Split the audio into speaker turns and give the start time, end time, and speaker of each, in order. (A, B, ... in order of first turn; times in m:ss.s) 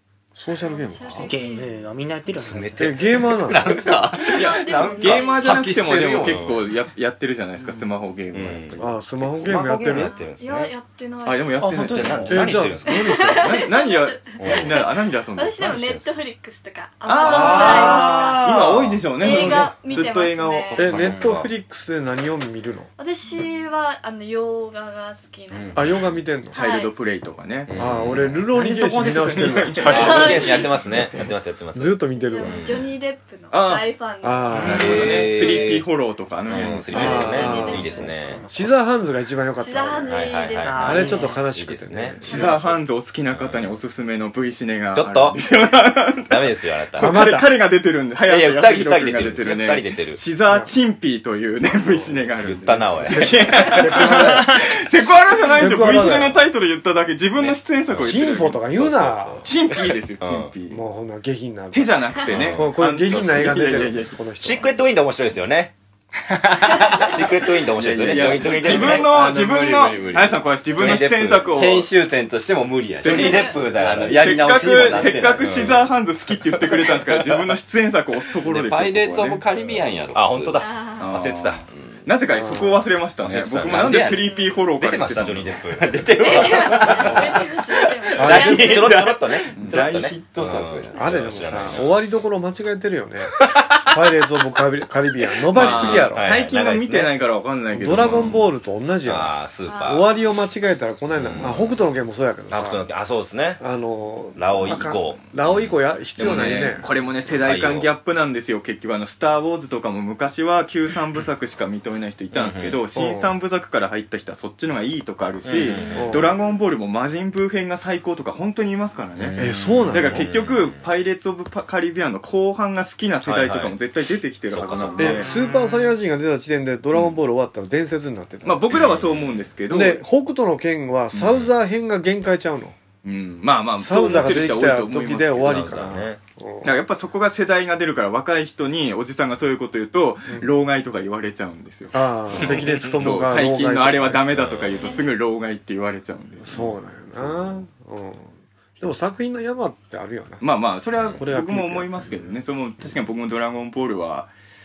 0:00.4-0:01.4 A
0:00.5-0:01.9 B
0:01.2-0:03.0 C
0:02.4-0:03.5 D
0:02.8-0:03.9 A
0:03.5-0:06.5 E
0:04.2-0:05.7 B
0:04.3-0:09.0 F
0:06.2-0:06.6 D
0:08.3-0:10.7 D
0:08.8-0:10.2 A
0:09.9-0:11.6 B
0:11.2-0:12.5 F
0:11.6-0:12.6 C
0:11.8-0:13.4 D
0:12.3-0:13.6 A
0:12.8-0:18.5 B
0:13.4-0:15.7 F
0:14.4-0:14.8 D
0:15.6-0:16.1 D
0:17.1-0:21.4 F
0:17.2-0:19.0 D
0:19.2-0:20.9 B
0:19.2-0:19.8 A
0:20.8-0:21.5 D
0:20.8-0:22.9 A
0:23.0-0:25.9 B
0:25.5-0:26.1 D
0:25.8-0:26.6 A
0:26.5-0:27.8 F
0:26.5-0:26.9 B
0:27.7-0:28.5 D
0:27.7-0:30.6 A
0:28.5-0:30.5 C
0:29.0-0:30.5 F
0:29.9-0:32.9 D
0:29.9-0:30.7 B
0:31.7-0:32.7 A
0:32.1-0:35.6 B
0:33.5-0:33.9 F
0:34.2-0:35.0 A
0:34.5-0:35.0 C
0:34.6-0:37.6 F
0:34.7-0:35.9 D
0:36.5-0:38.4 D
0:36.8-0:42.6 A
0:36.9-0:38.0 B
0:37.2-0:38.8 C
0:39.6-0:41.3 B
0:40.1-0:42.2 D
0:40.6-0:41.4 C
0:42.2-0:58.7 F
0:42.2-0:42.6 B
0:43.3-0:43.7 D
0:44.9-0:45.4 D
0:46.3-0:47.1 D
0:47.0-0:47.6 A
0:48.3-0:50.2 D
0:50.5-0:50.7 A
0:52.4-0:53.6 D
0:53.0-0:54.6 A
0:55.5-0:56.5 A
0:57.4-1:00.5 D
0:58.0-0:59.5 A
0:59.4-1:00.8 F
1:00.7-1:04.7 A
1:01.7-1:04.2 F
1:02.3-1:03.9 D
1:04.4-1:05.7 D
1:06.9-1:09.2 D
1:07.7-1:11.9 F
1:08.1-1:15.9 E
1:10.8-1:11.1 D
1:13.0-1:19.7 F
1:13.0-1:15.9 D
1:16.7-1:17.4 E
1:18.4-1:20.6 E
1:20.1-1:21.6 D
1:20.6-1:21.2 B
1:21.0-1:25.6 F
1:22.3-1:22.8 A
1:23.2-1:24.1 D
1:23.6-1:24.3 E
1:24.0-1:24.6 B
1:24.8-1:27.4 D
1:25.8-1:31.2 E
1:26.2-1:28.9 B
1:28.2-1:28.8 A
1:28.2-1:32.0 D
1:29.5-1:30.0 F
1:31.0-1:36.3 A
1:35.5-1:38.4 F
1:35.5-1:37.1 D
1:37.7-1:42.9 A
1:38.1-1:38.5 D
1:39.0-1:40.1 D
1:39.7-1:40.1 B
1:41.1-1:41.8 D
1:42.5-1:43.6 D
1:43.6-1:46.9 A
1:44.4-1:45.8 D
1:46.2-2:05.3 F
1:46.4-1:46.9 D
1:47.4-1:47.9 D
1:52.3-1:52.8 D
1:53.0-1:53.4 A
1:55.4-1:56.3 D
1:56.0-1:56.4 A
1:59.2-2:00.9 D
1:59.4-2:00.3 A
2:03.2-2:03.8 D
2:04.5-2:05.3 D
2:04.8-2:05.2 B
2:05.0-2:08.9 A
2:08.4-2:10.0 F
2:08.7-2:09.3 D
2:09.7-2:12.8 A
2:11.1-2:11.5 F
2:13.0-2:15.8 F
2:13.8-2:16.8 A
2:15.4-2:16.2 D
2:16.6-2:27.4 F
2:21.9-2:24.3 A
2:22.4-2:22.7 D
2:24.4-2:24.9 D
2:24.8-2:25.1 B
2:26.4-2:30.4 A
2:30.4-2:34.3 F
2:31.1-2:32.4 A